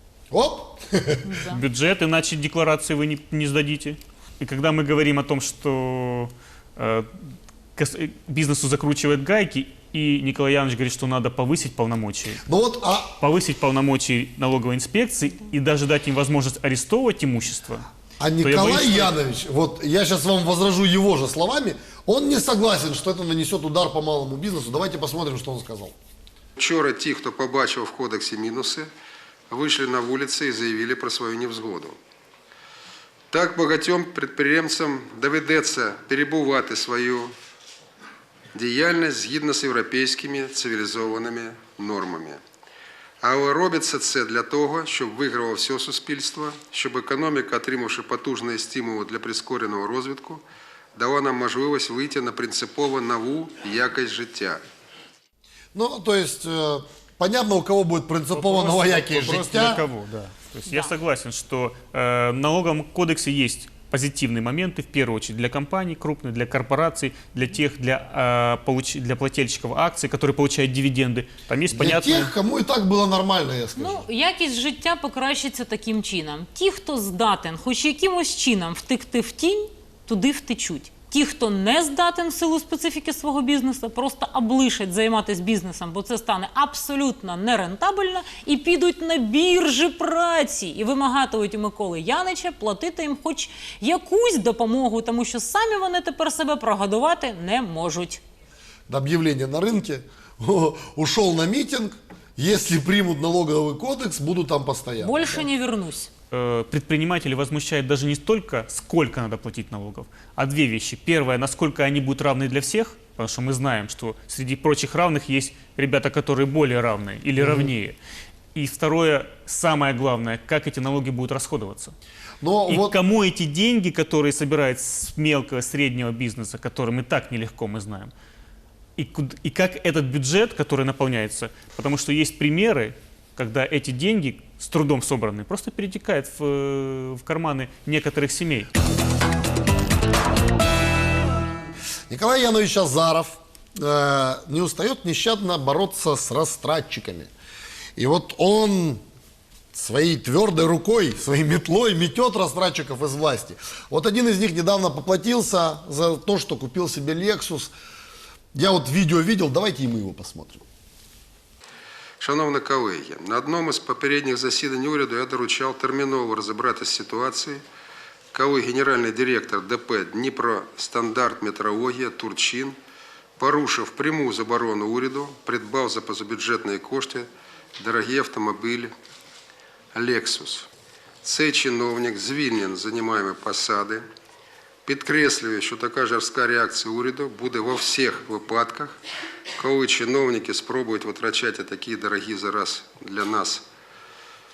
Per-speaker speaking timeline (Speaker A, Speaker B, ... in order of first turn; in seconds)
Speaker A: 0.3-1.3, 12.5-13.1, 18.2-25.9, 55.7-59.8, 71.7-74.0, 98.9-105.5, 117.4-117.7, 122.4-123.0, 142.1-147.3, 148.0-149.0, 149.7-157.7, 158.5-160.6
Speaker B: 1.2-1.6, 73.8-98.2, 105.0-106.1
Speaker C: 1.5-7.1, 7.8-12.4, 13.2-17.9, 18.4-19.2, 58.4-72.3, 106.3-118.0, 118.5-122.0, 122.7-128.1, 129.0-138.7
Speaker D: 26.6-28.9, 29.5-32.0, 33.3-37.3, 38.5-42.4, 43.2-50.4, 51.0-54.6, 162.2-167.6, 168.3-172.8, 173.4-178.9, 179.9-180.7, 181.2-184.0, 184.9-189.0, 189.6-193.6